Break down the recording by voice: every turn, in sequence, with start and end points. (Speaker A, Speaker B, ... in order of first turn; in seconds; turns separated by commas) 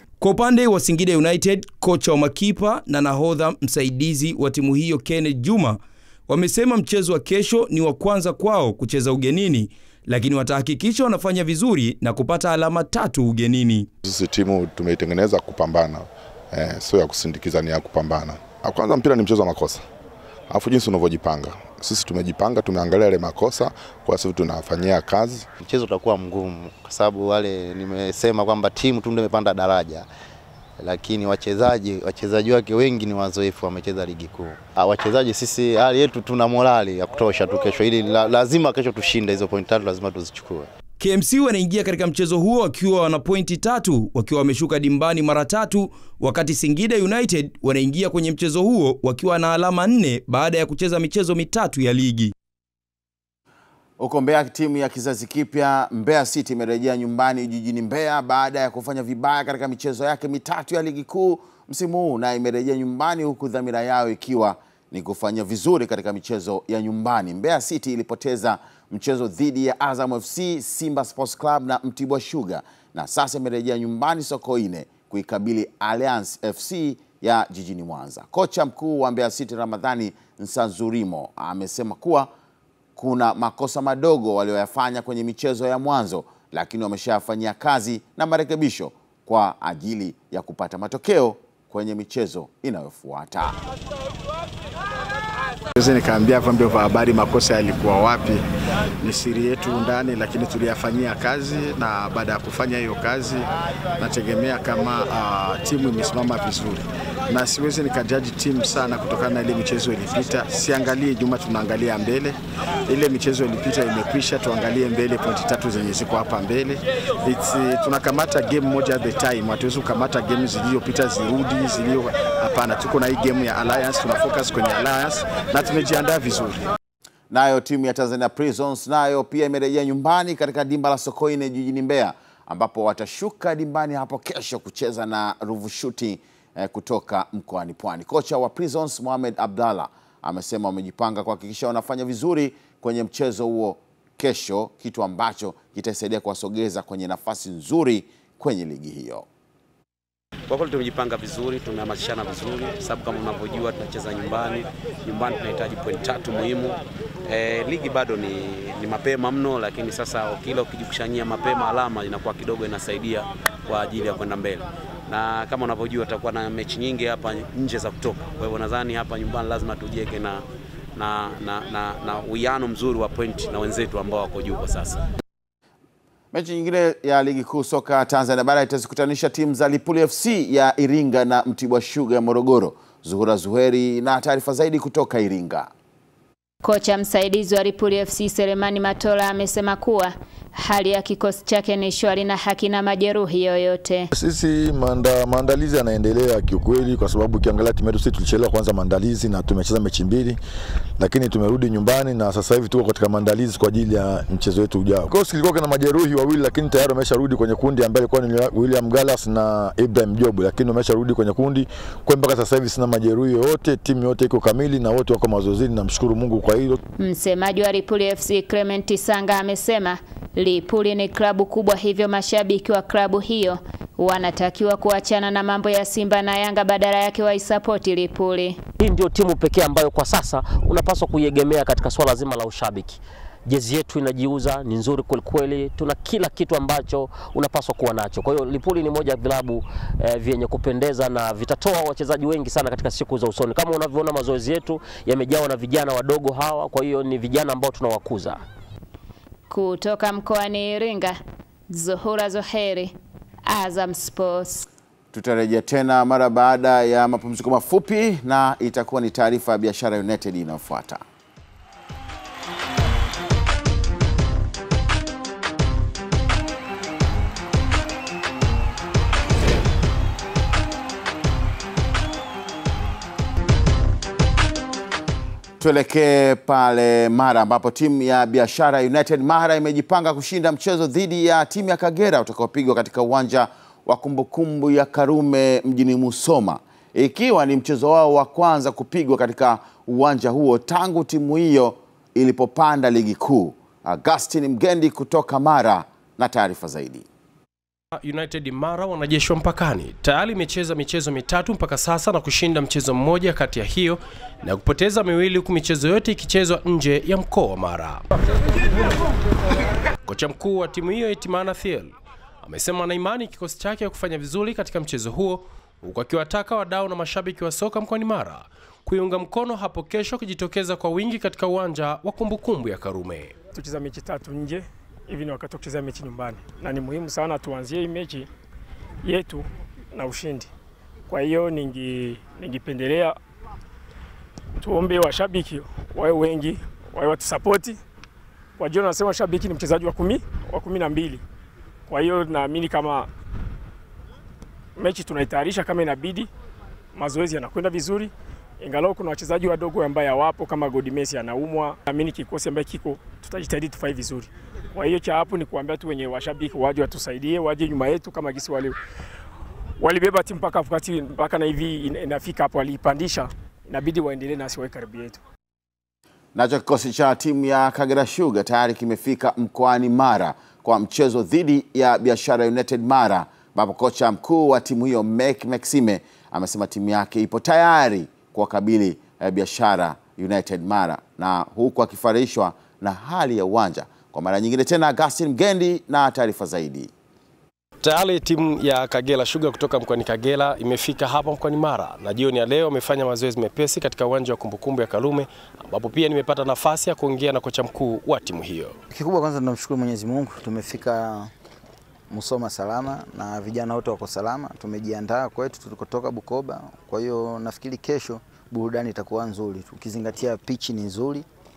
Speaker A: 0.2-13.9, Speaker B: 14.0-19.8, Speaker B: 20.5-25.5, Speaker C: 25.6-30.1, Speaker C: 30.8-40.7, Speaker A: 41.0-52.3, Speaker D: 54.0-82.3, Speaker D: 83.0-93.6, Speaker E: 95.8-98.4, Speaker E: 99.0-103.5, Speaker E: 104.0-112.4, Speaker E: 112.9-126.6, Speaker D: 127.3-149.3, Speaker F: 150.5-170.4, Speaker F: 170.9-175.0, Speaker D: 176.3-185.7, Speaker G: 186.6-194.1, Speaker H: 194.1-200.4, Speaker H: 201.0-216.8, Speaker G: 217.0-228.6, Speaker I: 228.8-248.4, Speaker G: 249.5-251.2, Speaker G: 251.7-252.9, Speaker G: 253.5-254.7, Speaker D: 255.1-261.0, Speaker D: 275.6-297.1, Speaker J: 297.9-308.0, Speaker J: 310.1-323.3, Speaker K: 323.6-328.3, Speaker K: 329.0-330.5, Speaker K: 331.1-333.2, Speaker K: 334.6-337.8, Speaker K: 338.6-341.2, Speaker K: 341.9-343.1, Speaker K: 344.8-346.3, Speaker K: 346.9-358.8, Speaker K: 359.8-365.2, Speaker D: 366.3-386.9, Speaker J: 387.8-398.7, Speaker L: 398.9-401.3, Speaker L: 402.1-411.3